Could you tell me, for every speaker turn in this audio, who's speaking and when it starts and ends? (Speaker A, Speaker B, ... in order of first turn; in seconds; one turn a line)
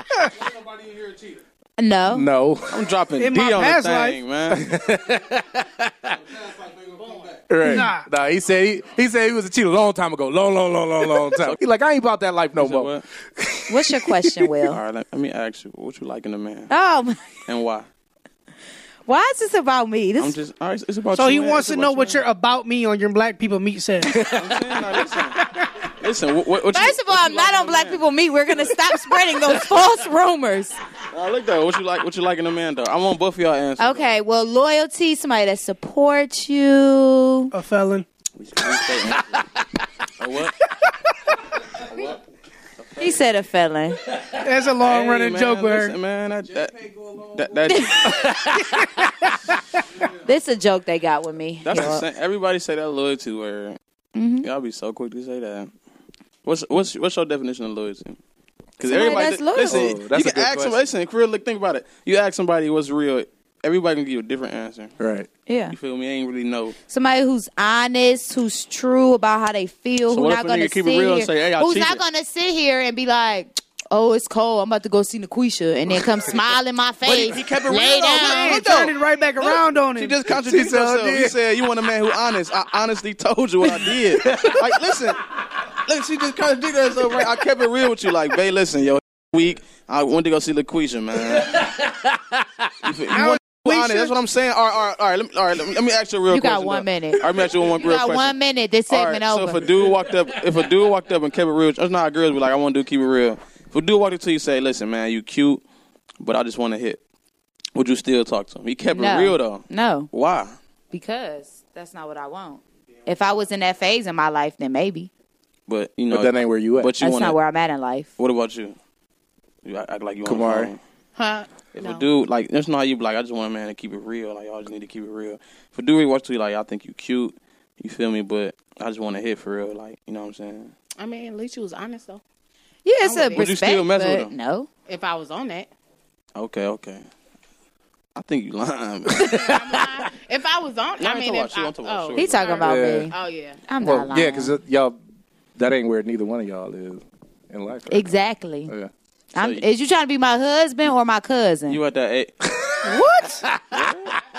Speaker A: 1.8-2.3
Speaker B: 2.1-2.8
Speaker C: 2.7-4.6
Speaker D: 3.2-4.2
Speaker B: 4.5-6.1
Speaker C: 6.8-7.1
Speaker B: 7.5-14.5
Speaker D: 7.6-8.1
Speaker C: 11.3-11.6
Speaker C: 12.6-13.0
Speaker A: 13.7-14.8
Speaker C: 14.7-16.7
Speaker A: 16.7-17.2
Speaker C: 17.4-17.9
Speaker A: 19.1-20.4
Speaker C: 20.2-22.2
Speaker D: 21.1-24.2
Speaker B: 24.1-24.6
Speaker C: 24.3-29.0
Speaker A: 26.7-30.8
Speaker C: 31.1-34.1
Speaker A: 33.8-37.5
Speaker D: 37.5-38.0
Speaker C: 38.4-39.4
Speaker C: 40.2-40.6
Speaker C: 41.8-42.2
Speaker C: 42.8-43.2
Speaker A: 43.0-44.0
Speaker D: 44.4-45.9
Speaker C: 44.8-48.3
Speaker A: 47.7-48.3
Speaker B: 48.1-48.7
Speaker A: 50.1-52.0
Speaker C: 51.6-53.8
Speaker A: 54.1-54.5
Speaker C: 54.4-55.7
Speaker C: 56.4-58.2
Speaker C: 58.8-64.9
Speaker A: 58.9-59.8
Speaker B: 59.6-60.8
Speaker B: 65.0-65.3
Speaker A: 65.5-65.8
Speaker C: 65.7-66.8
Speaker A: 66.9-78.6
Speaker C: 70.1-72.0
Speaker C: 77.0-91.6
Speaker D: 77.9-80.2
Speaker B: 80.3-81.4
Speaker B: 83.7-85.0
Speaker B: 91.3-92.9
Speaker C: 92.8-98.3
Speaker D: 93.1-94.2
Speaker A: 96.3-99.7
Speaker C: 98.9-105.6
Speaker B: 99.9-100.4
Speaker C: 106.2-107.0
Speaker C: 107.7-110.5
Speaker A: 108.9-110.1
Speaker A: 110.9-115.1
Speaker C: 115.7-117.4
Speaker B: 116.1-117.0
Speaker A: 117.0-118.1
Speaker C: 118.2-118.8
Speaker C: 119.6-120.8
Speaker B: 120.2-120.7
Speaker E: 121.2-122.1
Speaker C: 121.7-130.7
Speaker E: 130.9-132.2
Speaker A: 132.8-134.7
Speaker E: 133.0-133.5
Speaker C: 133.3-134.3
Speaker E: 134.8-135.7
Speaker C: 136.3-137.1
Speaker C: 138.2-139.3
Speaker B: 139.2-139.7
Speaker E: 139.2-143.7
Speaker C: 141.0-142.5
Speaker A: 142.1-143.1
Speaker B: 142.6-143.1
Speaker A: 143.7-144.6
Speaker B: 143.8-145.0
Speaker B: 145.6-148.1
Speaker A: 147.9-148.7
Speaker A: 149.3-151.8
Speaker C: 149.4-149.7
Speaker C: 151.7-152.3
Speaker B: 152.4-153.8
Speaker D: 152.9-153.4
Speaker C: 153.7-154.1